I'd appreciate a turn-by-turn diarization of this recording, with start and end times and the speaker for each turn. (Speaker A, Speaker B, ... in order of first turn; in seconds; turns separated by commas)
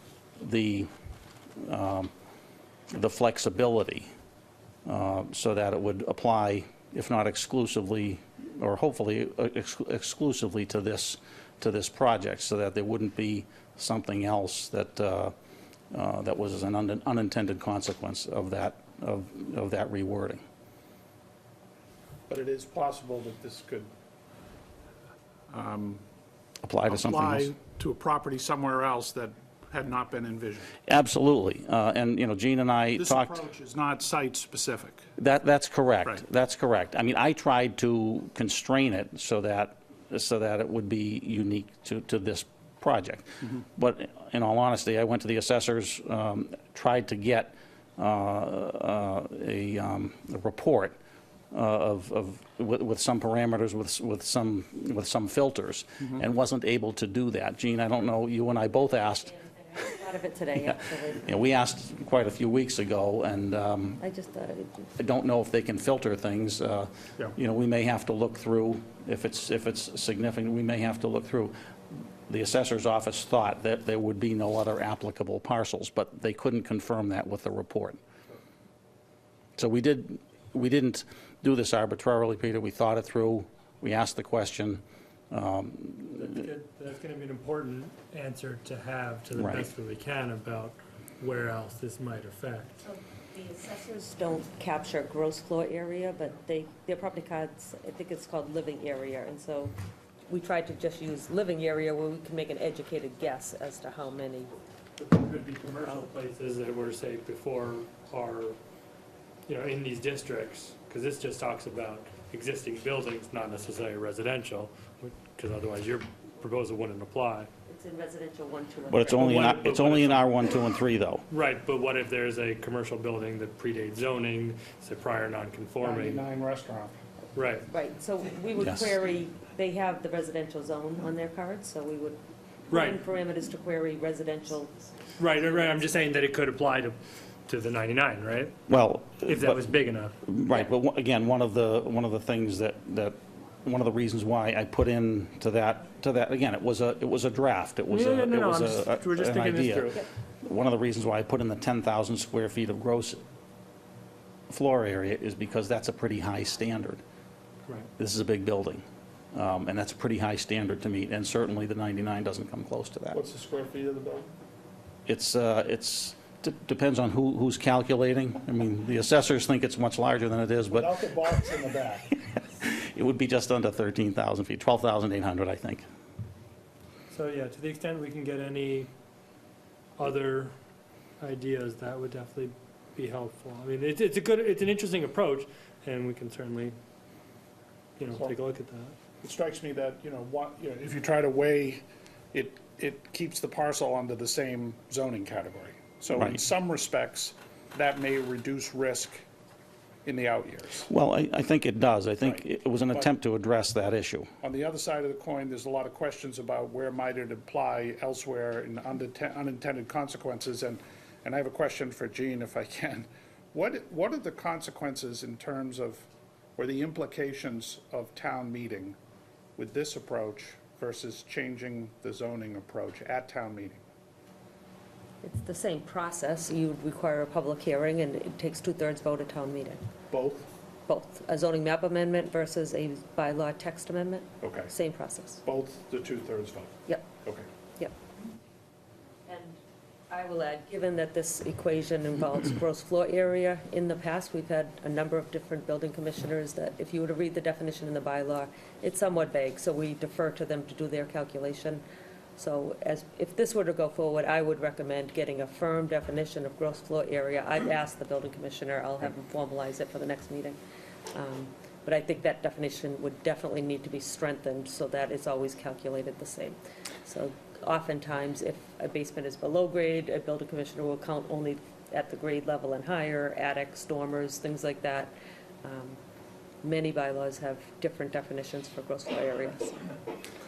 Speaker A: 0.4-0.9, Speaker A: 1.6-2.1, Speaker A: 2.9-4.1, Speaker A: 4.9-15.3, Speaker A: 15.9-20.4, Speaker B: 22.3-23.9, Speaker B: 25.5-26.0, Speaker A: 26.6-27.5, Speaker B: 26.9-30.8, Speaker A: 30.9-33.3, Speaker B: 33.0-35.0, Speaker A: 35.2-51.0, Speaker A: 51.5-59.3, Speaker C: 59.3-61.3, Speaker A: 60.6-64.0, Speaker C: 64.0-65.0, Speaker A: 65.0-78.0, Speaker A: 79.6-86.3, Speaker D: 86.2-92.8, Speaker A: 89.3-89.7, Speaker C: 92.8-99.8, Speaker C: 100.3-104.5, Speaker D: 105.0-108.6, Speaker D: 109.5-117.5, Speaker C: 117.6-119.5, Speaker A: 118.9-121.2, Speaker D: 119.1-120.3, Speaker D: 121.3-126.2, Speaker B: 125.8-126.9, Speaker D: 127.3-127.7, Speaker C: 127.7-135.8, Speaker A: 128.6-128.8, Speaker D: 132.7-133.0, Speaker D: 135.2-138.6, Speaker A: 138.7-139.6, Speaker D: 139.2-140.2, Speaker A: 140.2-153.2, Speaker D: 147.9-150.0, Speaker A: 154.5-157.0, Speaker A: 158.0-163.2, Speaker B: 163.1-164.3, Speaker A: 165.1-171.5, Speaker B: 170.7-172.1, Speaker A: 172.2-175.9, Speaker D: 177.1-178.9, Speaker D: 180.0-180.5, Speaker D: 181.2-186.8, Speaker D: 188.0-188.9, Speaker B: 189.2-199.2, Speaker B: 200.1-200.9, Speaker A: 200.9-204.3, Speaker B: 202.2-203.1, Speaker B: 204.4-219.0, Speaker B: 219.6-223.8, Speaker C: 225.2-229.8, Speaker B: 230.1-230.5, Speaker C: 230.9-235.4, Speaker B: 234.4-234.7, Speaker B: 235.4-237.5, Speaker C: 239.3-239.6, Speaker C: 240.1-251.8, Speaker C: 252.4-260.6, Speaker C: 261.1-276.0, Speaker C: 276.6-280.0